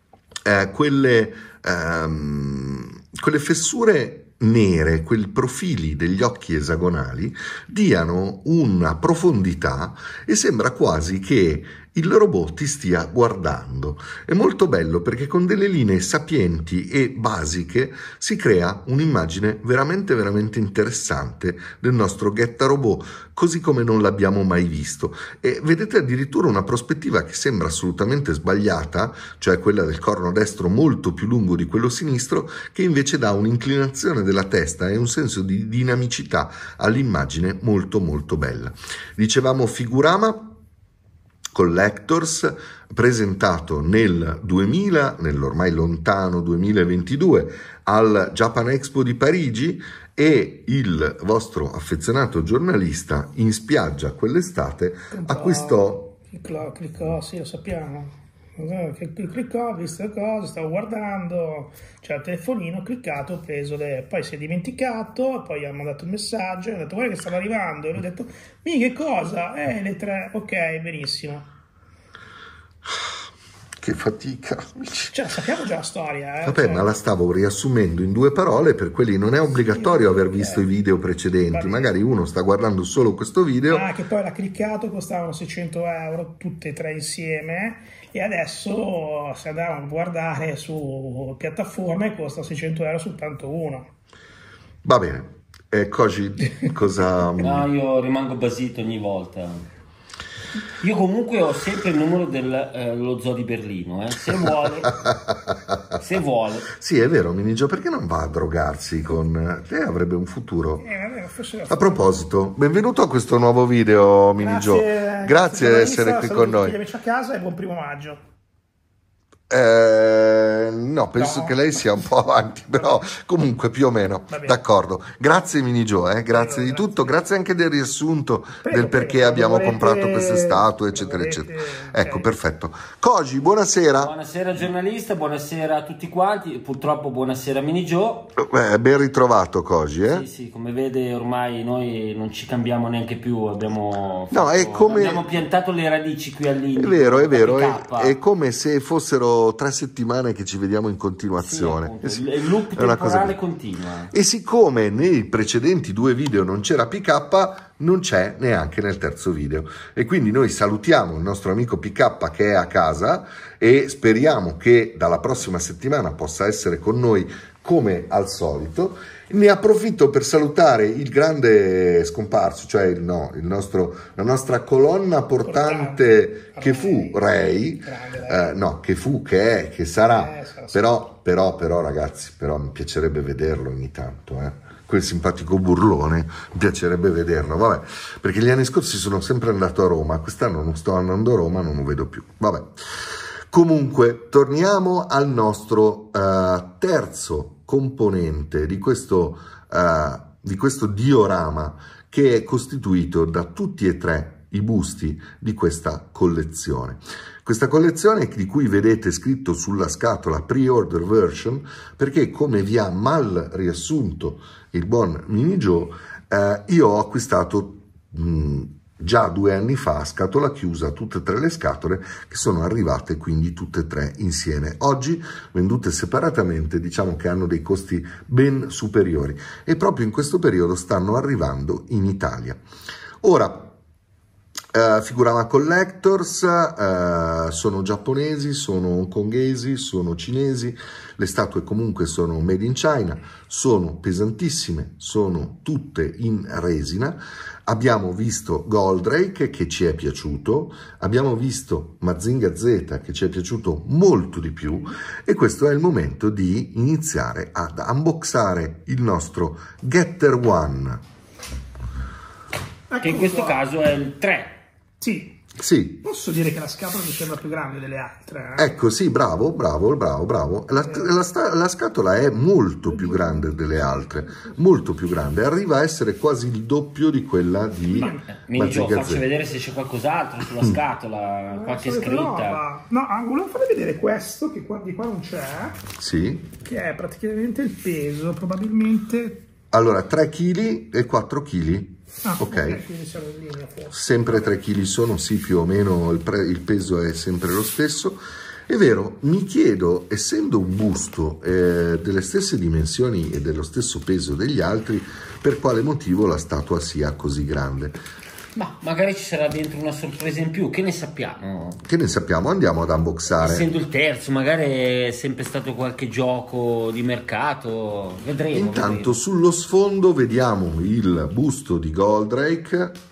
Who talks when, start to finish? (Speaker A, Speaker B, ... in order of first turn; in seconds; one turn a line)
Speaker A: 0.4-40.5
Speaker A: 41.5-56.1
Speaker B: 55.1-71.5
Speaker A: 73.8-75.1
Speaker B: 75.1-76.9
Speaker A: 76.4-83.9
Speaker B: 79.5-80.6
Speaker B: 81.5-81.9
Speaker B: 83.7-93.9
Speaker A: 94.8-97.7
Speaker C: 97.4-99.7
Speaker C: 100.8-105.0
Speaker C: 105.9-106.7
Speaker A: 106.7-110.8
Speaker B: 110.8-112.1
Speaker A: 111.7-116.8
Speaker B: 114.4-118.2
Speaker A: 119.5-134.1
Speaker B: 121.2-121.5
Speaker B: 124.3-124.6
Speaker B: 126.3-127.2
Speaker B: 128.6-132.3
Speaker C: 133.9-138.3
Speaker A: 138.4-140.2
Speaker C: 140.1-148.2
Speaker A: 144.3-145.3
Speaker A: 146.8-153.4
Speaker C: 151.4-154.1
Speaker A: 154.1-192.8
Speaker B: 175.4-177.2
Speaker B: 177.8-178.5
Speaker B: 180.1-180.8
Speaker A: 193.5-232.6
Speaker A: 233.2-233.7
Speaker A: 234.7-261.0
Speaker B: 262.9-263.6
Speaker C: 263.0-264.6
Speaker B: 265.0-265.4
Speaker A: 265.6-266.0
Speaker B: 266.0-268.7
Speaker A: 268.6-279.2
Speaker B: 270.8-271.1
Speaker B: 272.9-273.6
Speaker B: 277.9-278.2
Speaker C: 278.4-282.6
Speaker B: 281.5-285.8
Speaker A: 285.9-286.5
Speaker B: 286.6-289.4
Speaker A: 289.7-292.8
Speaker B: 292.2-294.6
Speaker A: 293.9-308.0
Speaker C: 308.5-311.8
Speaker A: 311.8-313.7
Speaker C: 313.4-319.2
Speaker A: 318.5-323.0